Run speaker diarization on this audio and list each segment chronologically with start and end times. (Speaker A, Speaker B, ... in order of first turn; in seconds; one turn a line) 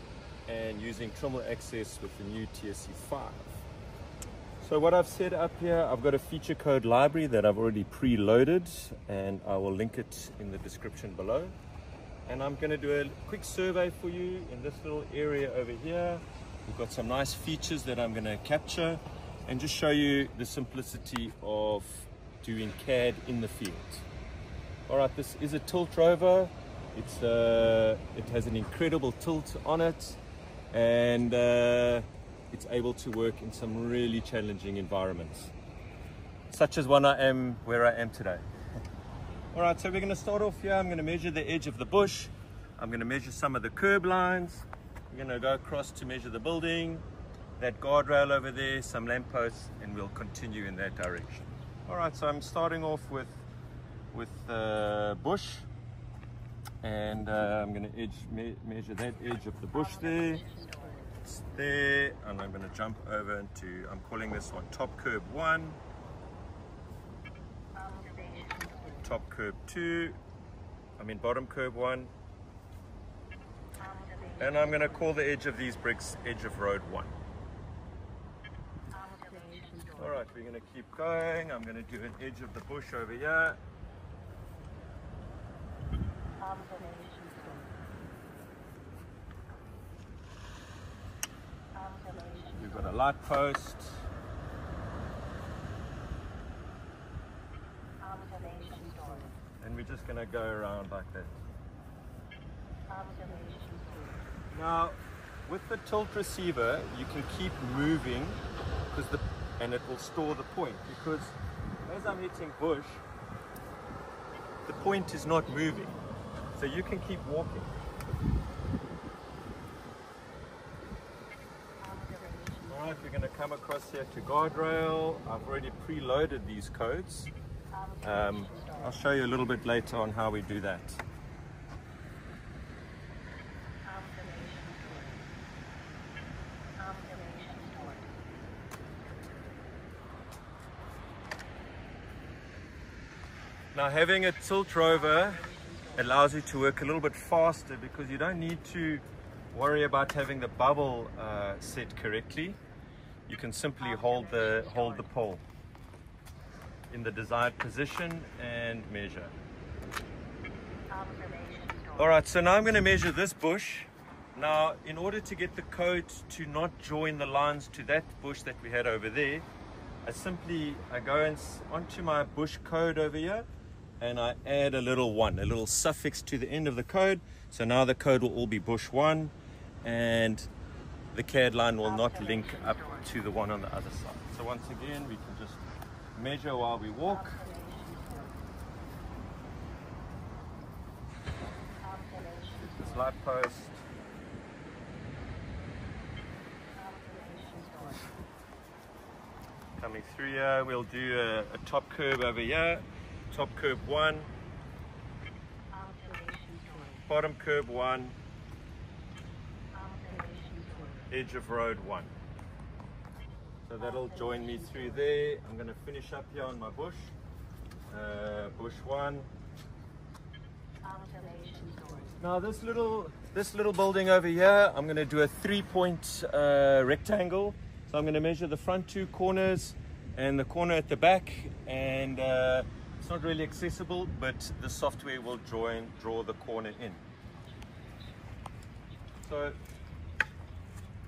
Speaker A: 0.5-3.6
Speaker A: 4.6-11.6
Speaker A: 12.3-24.1
Speaker A: 24.9-30.2
Speaker A: 30.7-35.5
Speaker A: 36.5-38.5
Speaker A: 39.5-47.0
Speaker A: 47.6-53.4
Speaker A: 54.1-55.7
Speaker A: 56.8-60.5
Speaker A: 61.2-65.8
Speaker A: 69.0-70.2
Speaker A: 71.0-72.1
Speaker A: 74.4-77.1
Speaker A: 80.0-83.6
Speaker A: 92.5-94.0
Speaker A: 99.6-101.3
Speaker A: 104.5-113.0
Speaker A: 114.7-116.0
Speaker A: 116.5-117.7
Speaker A: 122.7-127.3
Speaker A: 128.0-131.0
Speaker A: 143.7-152.6
Speaker A: 153.3-155.4
Speaker A: 156.9-159.3
Speaker A: 162.0-169.5
Speaker A: 170.0-173.5
Speaker A: 174.0-180.5
Speaker A: 181.1-185.6
Speaker A: 186.2-187.5
Speaker A: 192.6-193.8
Speaker A: 199.8-204.3
Speaker A: 207.1-208.2
Speaker A: 211.1-212.1
Speaker A: 213.7-217.2
Speaker A: 217.9-219.3
Speaker A: 222.2-237.0
Speaker A: 239.2-239.6